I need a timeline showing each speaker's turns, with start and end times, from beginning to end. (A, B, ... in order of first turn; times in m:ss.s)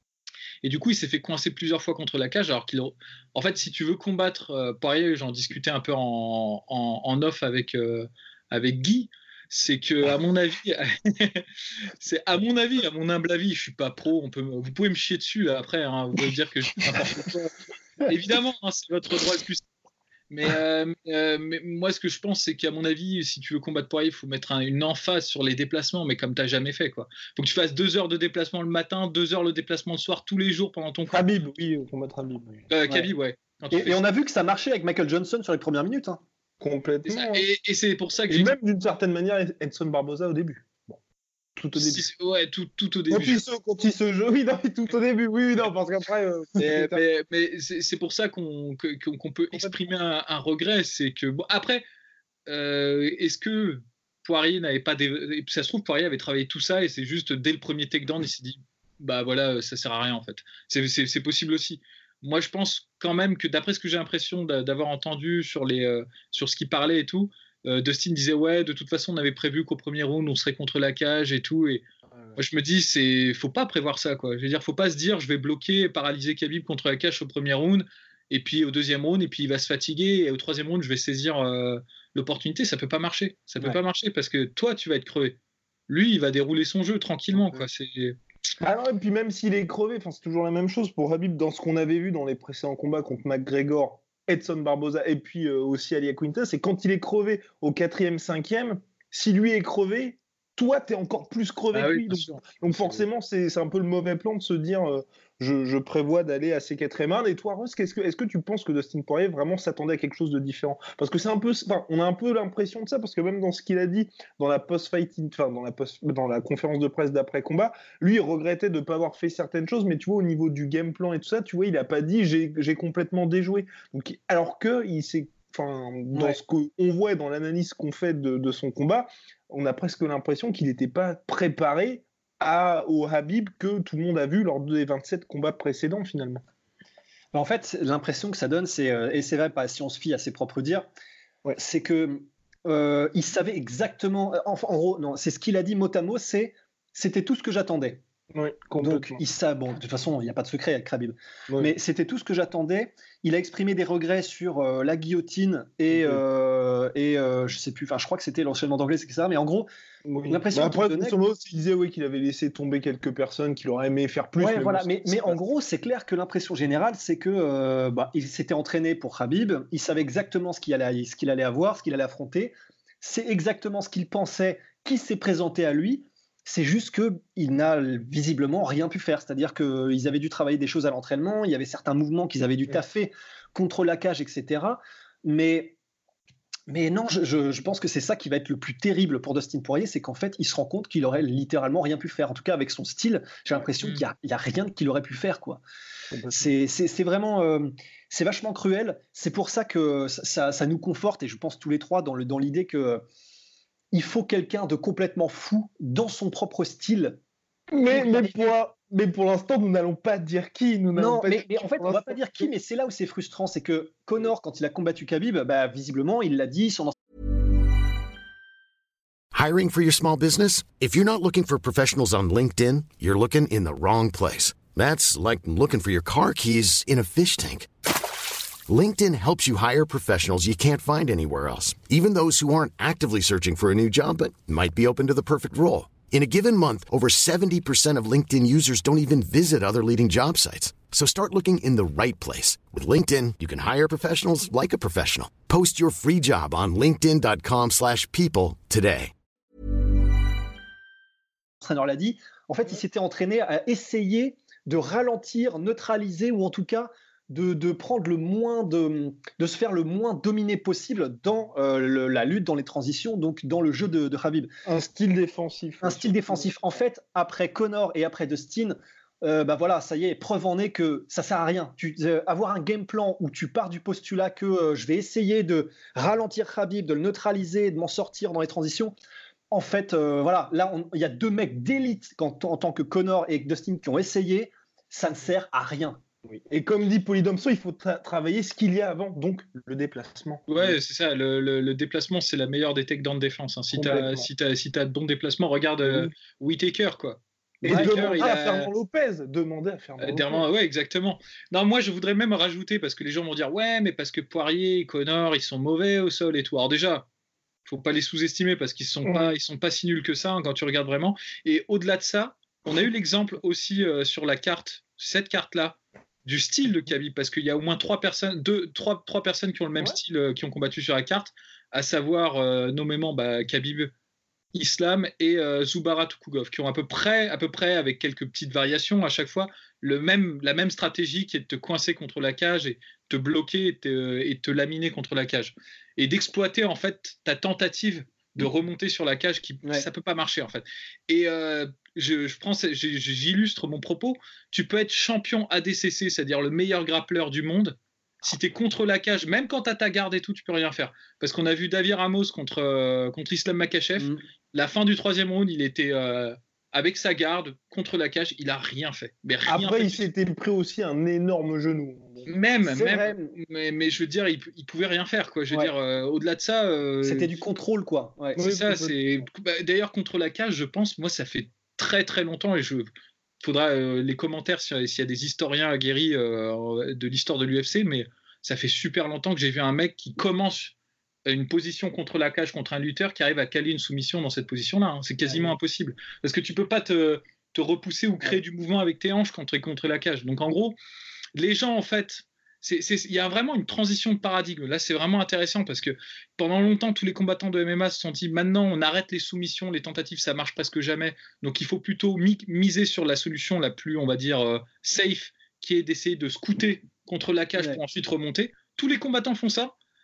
0:00.6-0:11.5 A
0:12.0-0:17.5 A
0:18.0-0:19.6 A
0:20.3-0:31.2 A
0:31.1-0:32.6 B
0:32.7-0:34.0 A
0:33.7-0:36.2 C
0:36.6-0:37.5 B
0:37.1-0:38.6 A
0:38.3-0:41.0 B
0:41.6-0:42.1 B
0:41.8-0:43.4 A
0:43.1-0:47.0 B
0:46.6-0:51.8 A
0:52.5-1:11.8 A
1:12.4-1:25.4 A
1:25.9-1:28.2 A
1:28.6-2:16.4 B
1:41.7-1:43.0 A
2:06.1-2:06.4 C
2:17.3-2:20.9 C
2:21.6-2:28.0 C
2:28.3-2:29.2 B
2:28.8-2:39.7 C
2:35.9-2:36.2 B
2:40.1-2:45.4 B
2:40.3-2:41.2 C
2:44.4-3:05.8 C
3:06.7-3:15.6 C
3:16.1-3:16.4 B
3:16.3-3:23.0 C
3:23.9-3:27.2 C
3:27.7-3:32.5 B
3:27.9-3:28.5 C
3:31.0-3:37.0 C
3:39.3-3:47.7 D
3:48.7-4:09.1 D
4:11.6-4:24.5 C
4:24.6-4:26.5 B
4:25.8-4:39.0 C
4:39.5-4:46.0 C
4:46.5-4:50.5 B
4:50.5-4:58.7 A
4:53.7-4:54.3 B
4:57.6-5:00.4 B
4:57.6-4:58.1 C
5:00.0-5:07.1 A
5:07.7-5:23.9 A
5:09.1-5:09.3 B
5:24.5-6:00.1 A
5:59.5-6:02.3 B
6:02.3-6:07.4 A
6:02.6-6:03.4 C
6:07.0-6:08.4 C
6:08.4-6:12.9 A
6:08.4-6:09.0 B
6:13.4-6:20.7 A
6:21.3-6:30.8 A
6:31.4-6:49.7 A